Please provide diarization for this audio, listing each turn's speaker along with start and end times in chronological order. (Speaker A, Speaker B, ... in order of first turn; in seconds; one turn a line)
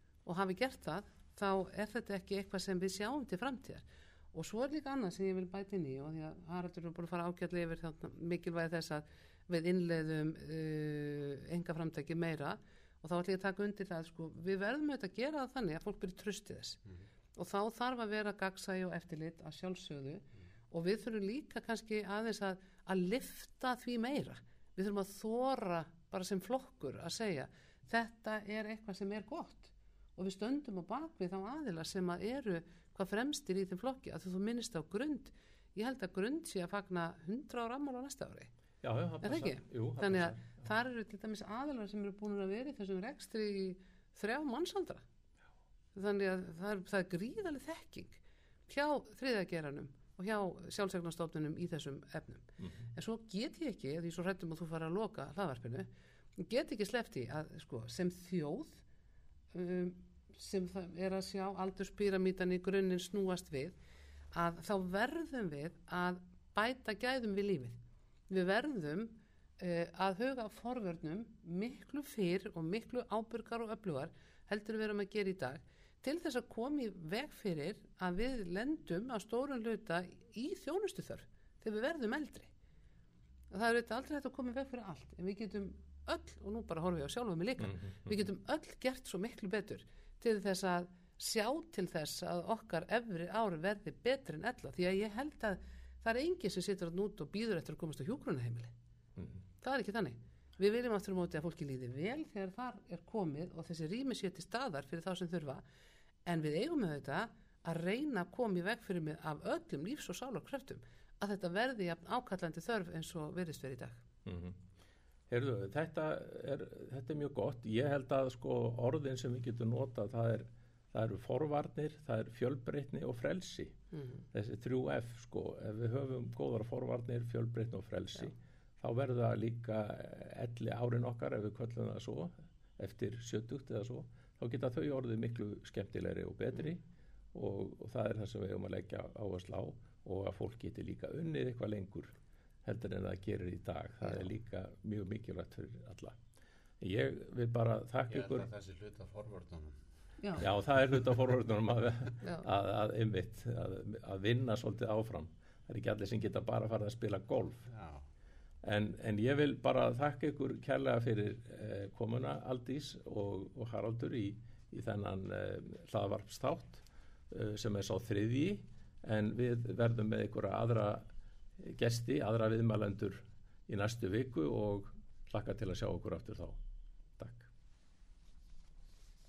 Speaker A: 0.2-16.8
Speaker A: 17.4-38.5
Speaker B: 38.8-40.6
Speaker A: 39.2-45.0
Speaker A: 46.0-58.8
Speaker A: 59.5-63.8
Speaker A: 64.3-67.8
Speaker A: 68.3-82.5
Speaker A: 83.5-98.7
Speaker B: 87.7-88.1
Speaker A: 99.6-105.6
Speaker A: 106.2-114.0
Speaker B: 114.3-114.6
Speaker B: 115.3-123.8
Speaker A: 123.9-124.2
Speaker B: 124.3-136.8
Speaker B: 137.3-142.1
Speaker B: 142.7-146.2
Speaker B: 146.8-148.5
Speaker C: 148.1-149.8
Speaker A: 150.2-150.4
Speaker B: 150.4-157.7
Speaker C: 157.7-158.0
Speaker B: 158.6-171.1
Speaker B: 171.6-176.6
Speaker B: 177.2-177.5